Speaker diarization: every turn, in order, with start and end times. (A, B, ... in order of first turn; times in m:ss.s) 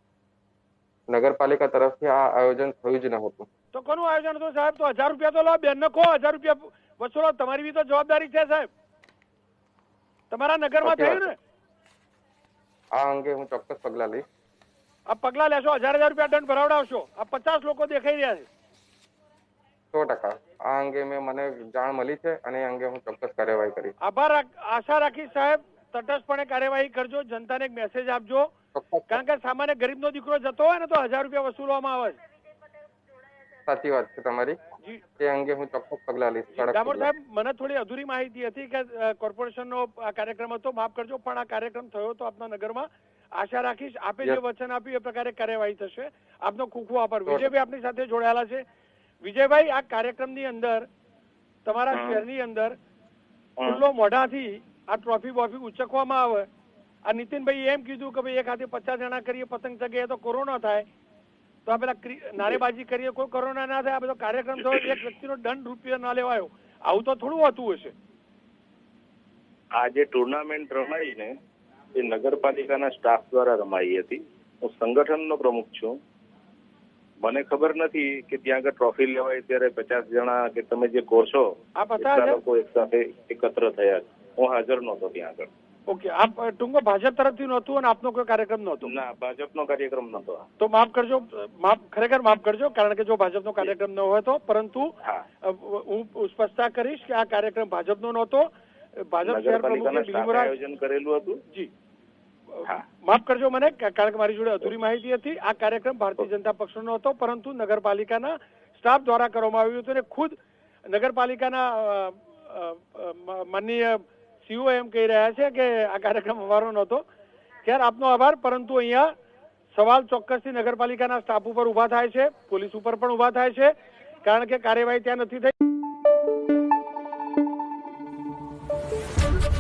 0:01.1-0:03.5 A
0:03.8-0:08.7 B
0:10.3-0:11.3 B
0:10.8-0:11.3 A
0:13.0-0:14.2 A
0:15.1-0:18.5 B
0:19.9-0:24.0 A
0:24.0-0:28.5 B
0:28.7-0:29.2 A
0:29.1-0:32.2 B
0:33.7-0:34.6 A
0:35.2-0:37.1 A
0:36.7-0:48.6 B
0:49.2-0:50.9 B
0:51.6-0:52.8 B
0:51.9-0:52.2 C
0:53.6-0:53.8 C
0:53.7-0:56.5 B
0:57.0-1:00.9 B
1:01.7-1:07.9 B
1:04.6-1:05.0 C
1:09.7-1:11.3 C
1:12.0-1:16.0 C
1:17.2-1:25.5 C
1:21.8-1:22.4 B
1:25.9-1:28.9 B
1:28.8-1:30.4 C
1:30.6-1:34.9 B
1:35.4-1:40.5 B
1:39.2-1:41.4 C
1:42.6-1:57.0 B
1:57.6-1:59.1 B
1:59.7-2:05.5 B